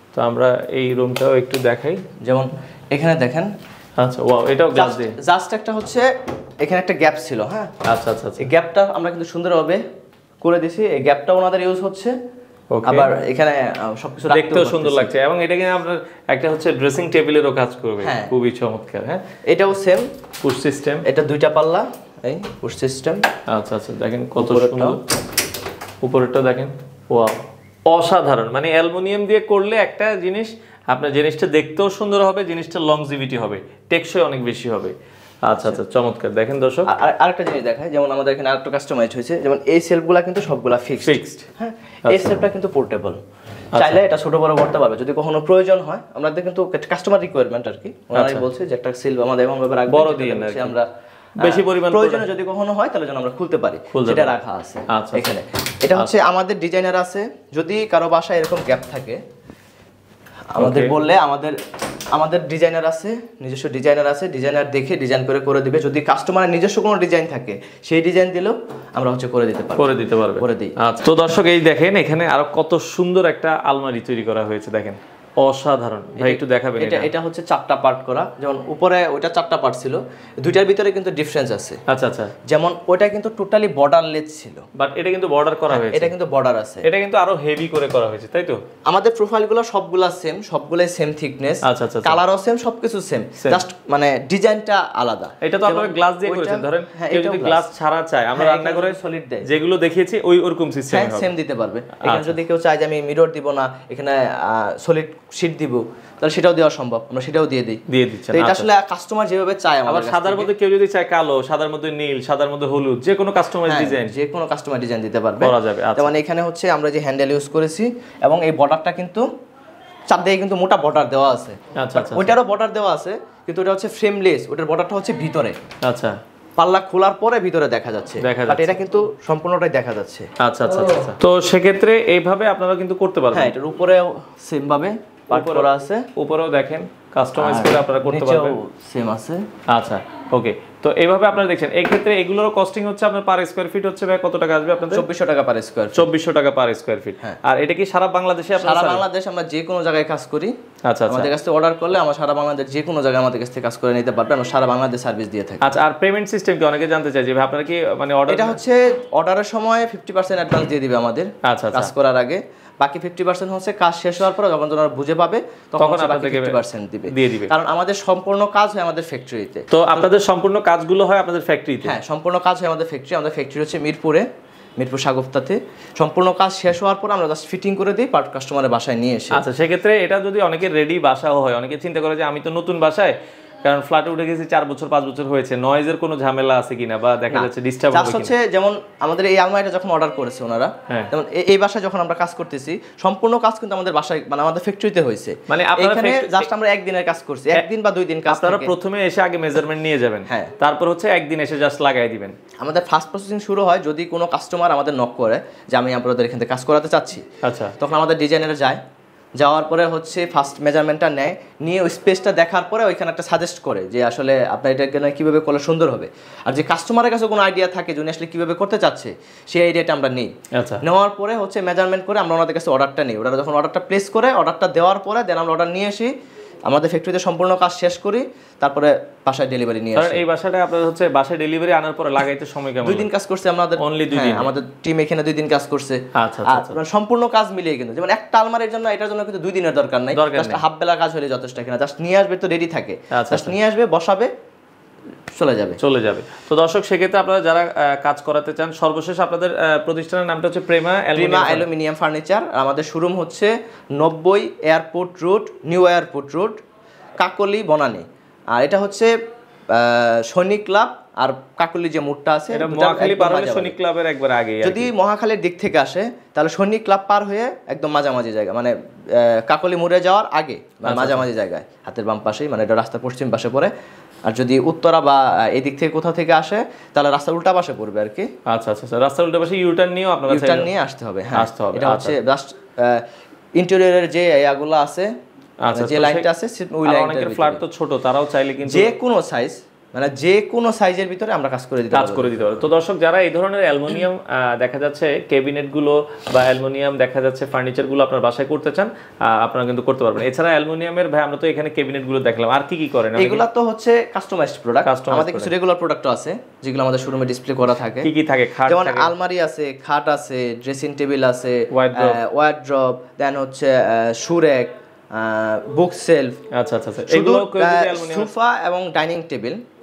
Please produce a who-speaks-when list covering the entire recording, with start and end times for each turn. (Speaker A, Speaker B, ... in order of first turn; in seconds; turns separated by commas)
Speaker A: 0.1-2.0, Speaker B: 2.2-3.5, Speaker A: 4.0-5.1, Speaker B: 4.7-6.0, Speaker B: 6.6-7.7, Speaker A: 7.8-8.4, Speaker B: 8.4-9.8, Speaker B: 10.4-12.1, Speaker A: 12.7-13.1, Speaker B: 12.8-15.1, Speaker A: 14.3-19.2, Speaker B: 18.0-18.3, Speaker B: 19.5-20.1, Speaker A: 20.4-21.0, Speaker B: 21.0-23.2, Speaker A: 23.5-25.0, Speaker B: 24.4-25.0, Speaker A: 26.0-34.9, Speaker A: 35.5-36.9, Speaker B: 36.9-43.2, Speaker A: 41.0-41.5, Speaker A: 42.0-42.5, Speaker A: 43.7-44.0, Speaker B: 43.7-50.9, Speaker A: 48.1-48.4, Speaker A: 49.9-50.8, Speaker A: 51.4-52.2, Speaker B: 51.4-59.2, Speaker A: 53.9-54.3, Speaker A: 54.9-55.4, Speaker B: 60.5-61.5, Speaker A: 60.6-60.9, Speaker B: 62.1-70.7, Speaker A: 69.8-77.1, Speaker B: 76.2-81.8, Speaker A: 81.9-82.3, Speaker B: 82.5-84.6, Speaker A: 84.7-86.1, Speaker B: 85.7-86.9, Speaker A: 86.8-88.6, Speaker B: 88.9-97.6, Speaker A: 91.6-92.2, Speaker A: 93.4-93.6, Speaker A: 95.4-101.3, Speaker B: 98.3-99.5, Speaker B: 100.9-107.8, Speaker A: 102.0-102.4, Speaker A: 107.9-108.7, Speaker B: 108.3-110.5, Speaker A: 109.9-114.1, Speaker B: 113.7-119.2, Speaker A: 115.4-116.1, Speaker B: 120.1-125.5, Speaker A: 121.8-122.3, Speaker A: 125.8-126.2, Speaker B: 126.6-130.3, Speaker A: 128.2-128.8, Speaker A: 130.4-133.5, Speaker B: 133.3-136.1, Speaker A: 135.3-138.6, Speaker B: 137.4-139.4, Speaker A: 139.7-145.1, Speaker B: 144.9-146.1, Speaker A: 145.9-149.0, Speaker B: 148.6-150.5, Speaker A: 150.9-151.3, Speaker B: 151.1-155.7, Speaker A: 155.6-158.6, Speaker B: 158.3-170.1, Speaker A: 161.4-161.9, Speaker A: 165.8-167.5, Speaker A: 169.7-171.9, Speaker B: 171.8-174.2, Speaker B: 174.8-179.4, Speaker A: 179.3-188.3, Speaker B: 187.3-198.7, Speaker A: 195.5-196.5, Speaker A: 198.3-202.3, Speaker B: 200.3-200.5, Speaker B: 202.6-207.2, Speaker A: 207.4-207.7, Speaker B: 207.8-208.8, Speaker B: 209.4-220.3, Speaker A: 220.5-220.8, Speaker B: 220.8-226.1, Speaker B: 226.7-230.2, Speaker A: 229.9-233.1, Speaker B: 232.8-244.3, Speaker A: 233.8-234.5, Speaker A: 236.1-236.8, Speaker A: 240.1-240.6, Speaker A: 243.1-243.5, Speaker B: 245.3-245.8, Speaker A: 245.8-251.7, Speaker B: 251.1-256.6, Speaker B: 257.2-259.1, Speaker B: 259.7-263.8, Speaker A: 262.5-264.9, Speaker B: 264.6-273.7, Speaker A: 270.8-271.3, Speaker B: 274.3-278.3, Speaker A: 278.5-280.7, Speaker B: 280.3-283.0, Speaker A: 281.4-282.1, Speaker B: 283.6-285.1, Speaker A: 285.6-286.2, Speaker B: 285.7-287.6, Speaker A: 286.8-288.9, Speaker B: 288.6-292.6, Speaker A: 291.9-303.4, Speaker B: 303.1-308.1, Speaker A: 304.8-305.5, Speaker A: 308.0-309.1, Speaker B: 308.6-316.4, Speaker A: 311.7-312.2, Speaker A: 316.5-318.3, Speaker B: 317.1-319.6